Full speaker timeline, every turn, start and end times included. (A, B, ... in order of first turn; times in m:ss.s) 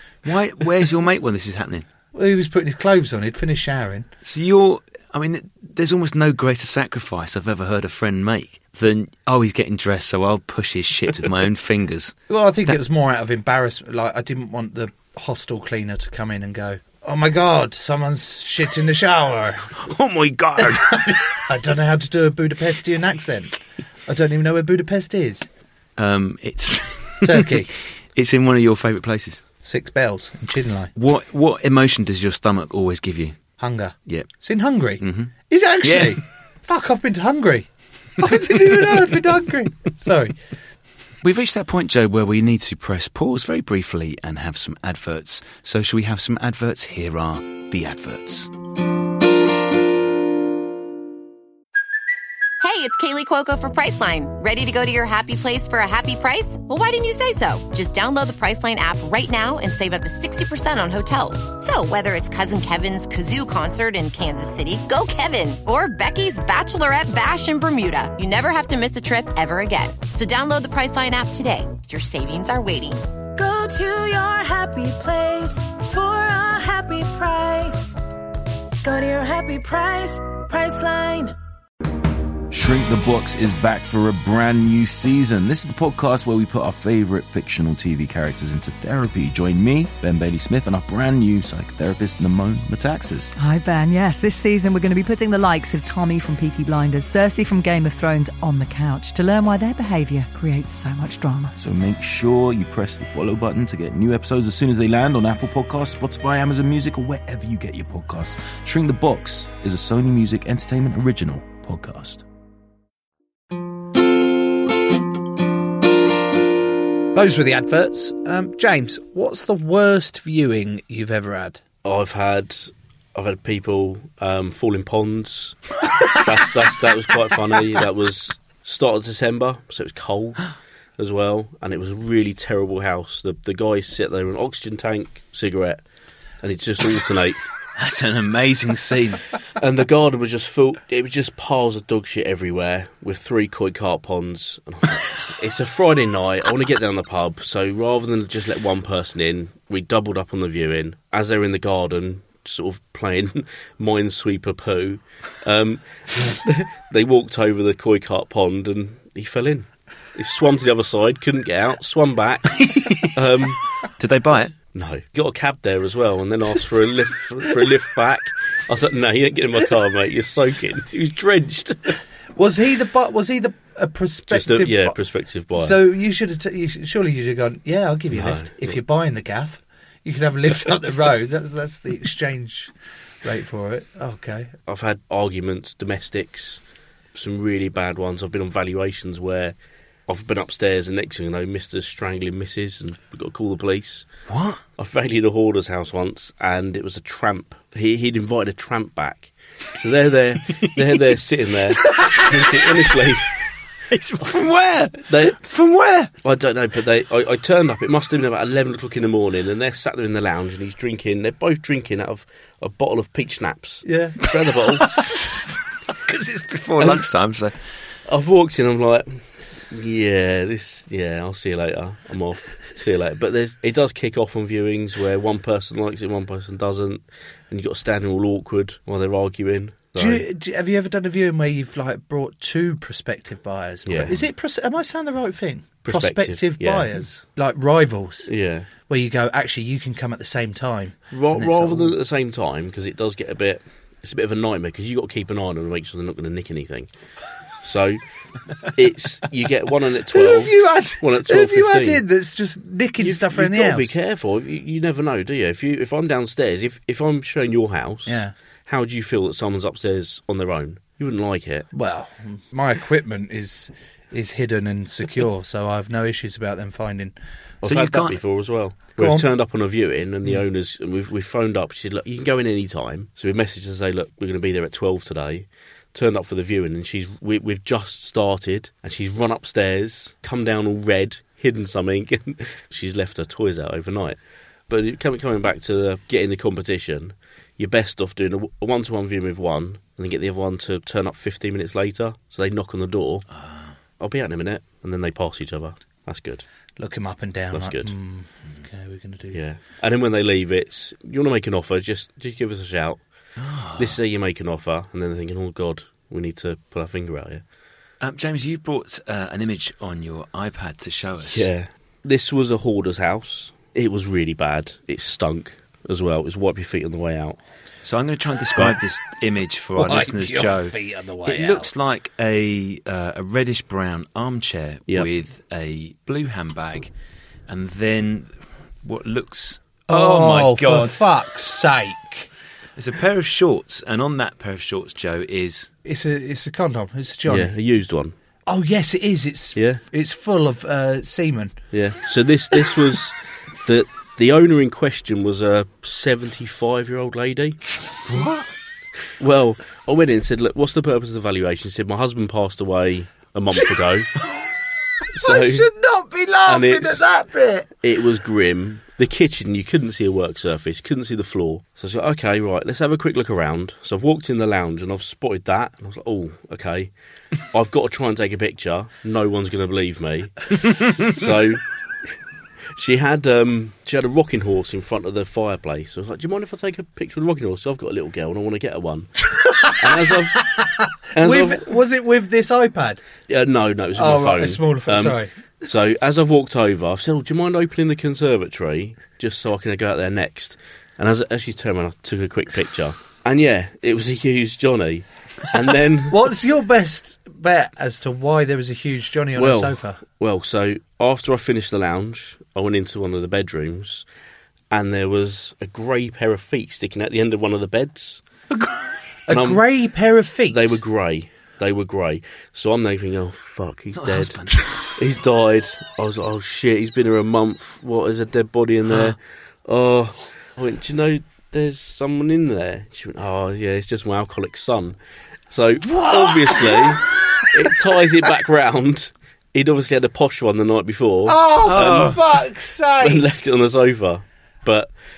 0:00.2-0:01.8 A
0:02.1-0:04.1 B
0:04.2-0:12.1 A
0:12.3-0:19.7 B
0:19.8-0:21.2 A
0:20.6-0:25.5 B
0:26.0-0:29.4 A
0:27.2-0:27.7 B
0:29.6-0:30.9 B
0:31.0-0:33.4 A
0:33.6-0:40.4 B
0:35.0-0:35.3 A
0:35.8-0:36.2 A
0:41.2-0:48.5 A
0:52.6-1:13.0 C
1:13.4-1:18.0 D
1:18.8-1:21.3 D
1:22.5-1:33.3 E
1:33.4-1:41.5 F
1:41.6-1:52.2 E
1:57.1-2:01.6 B
2:01.8-2:15.8 G
2:16.4-2:17.4 G
2:17.8-2:19.2 A
2:19.6-2:43.6 G
2:42.6-2:43.1 A
2:44.0-2:44.5 A
2:44.7-2:52.0 G
2:52.4-2:55.0 B
2:54.3-2:55.8 G
2:55.5-3:02.7 B
2:58.1-2:58.8 G
3:03.2-3:04.5 B
3:04.7-3:06.6 G
3:07.1-3:09.5 G
3:10.1-3:14.1 G
3:14.3-3:14.6 A
3:14.8-3:23.3 G
3:20.6-3:20.9 A
3:21.9-3:22.7 A
3:23.9-3:26.1 A
3:25.1-3:25.4 G
3:26.2-3:34.9 G
3:33.8-3:34.2 B
3:35.9-3:37.5 A
3:38.1-3:50.2 G
3:50.0-3:58.3 B
3:53.8-3:54.1 G
3:55.8-3:57.0 G
3:58.3-3:58.7 G
3:58.9-4:01.9 B
4:01.1-4:06.9 G
4:07.6-4:08.0 G
4:08.7-4:12.0 G
4:10.1-4:13.9 B
4:13.0-4:21.7 G
4:18.0-4:18.3 B
4:21.7-4:27.1 B
4:27.6-4:44.2 G
4:27.6-4:28.2 A
4:29.0-4:29.3 B
4:44.7-4:53.2 G
4:53.3-4:53.7 A
4:54.0-4:56.4 G
4:56.8-4:59.4 B
4:57.5-4:57.9 G
4:59.3-5:03.0 G
5:03.4-5:04.0 A
5:03.8-5:07.4 G
5:08.0-5:11.5 A
5:11.3-5:17.4 G
5:17.8-5:26.9 A
5:19.8-5:21.7 B
5:27.5-5:31.0 A
5:29.9-5:32.3 B
5:32.8-5:35.7 A
5:35.8-5:37.5 B
5:37.3-5:38.1 G
5:38.5-5:41.5 B
5:39.6-5:39.8 G
5:41.7-5:47.6 G
5:48.1-5:48.5 A
5:49.2-5:54.1 G
5:55.2-5:55.7 G
5:55.2-5:57.7 B
5:56.4-5:57.0 G
5:57.8-6:06.9 G
6:07.5-6:11.6 G
6:12.7-6:20.4 G
6:19.4-6:23.0 B
6:21.2-6:21.8 G
6:23.3-6:36.3 G
6:23.9-6:25.3 B
6:36.1-6:40.0 B
6:39.4-6:44.0 G
6:44.7-6:48.2 G
6:48.5-6:48.8 A
6:49.3-6:50.8 B
6:49.3-6:49.6 G
6:50.5-6:54.4 G
6:53.9-6:54.7 A
6:54.9-7:05.0 G
6:58.8-6:59.2 A
7:05.5-7:12.1 G
7:05.9-7:06.8 B
7:11.2-7:13.2 B
7:11.6-7:12.2 A
7:13.0-7:14.9 G